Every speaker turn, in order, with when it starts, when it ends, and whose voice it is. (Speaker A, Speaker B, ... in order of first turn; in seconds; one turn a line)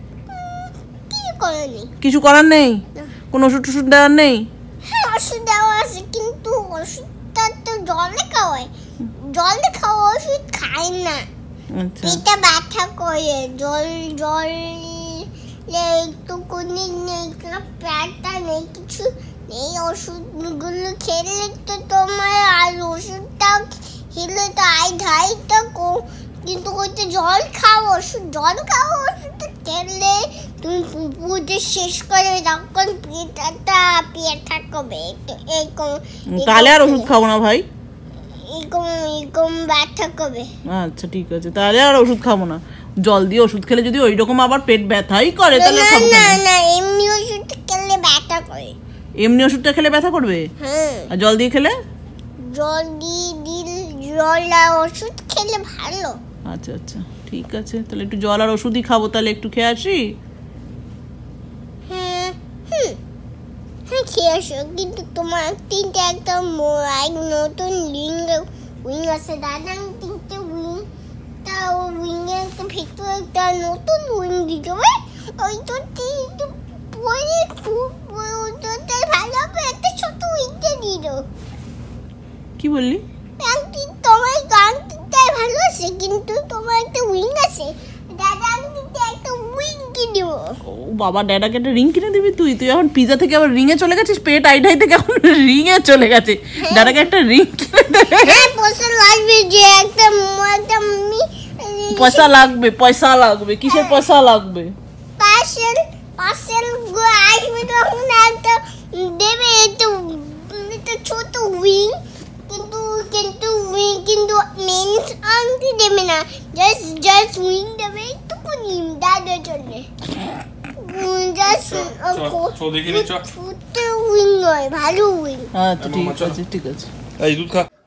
Speaker A: 0.3-1.9
Speaker B: 2.0-4.5
Speaker A: 4.8-11.3
Speaker B: 11.7-12.2
Speaker A: 12.0-37.1
Speaker B: 36.3-37.6
Speaker A: 38.4-40.5
Speaker B: 40.6-46.4
Speaker A: 45.5-48.8
Speaker B: 49.2-50.5
Speaker A: 50.6-51.1
Speaker B: 51.1-51.7
Speaker A: 52.4-56.2
Speaker B: 56.5-60.0
Speaker A: 61.9-63.0
Speaker A: 63.9-70.9
Speaker A: 71.4-81.3
Speaker B: 82.6-83.0
Speaker A: 83.4-90.6
Speaker B: 90.6-98.5
Speaker A: 96.6-97.0
Speaker A: 98.2-102.3
Speaker B: 101.9-104.7
Speaker A: 103.7-104.0
Speaker A: 105.2-119.9
Speaker A: 120.7-125.5
Speaker C: 121.5-123.2
Speaker B: 125.5-126.9
Speaker C: 125.8-126.4
Speaker C: 127.2-127.7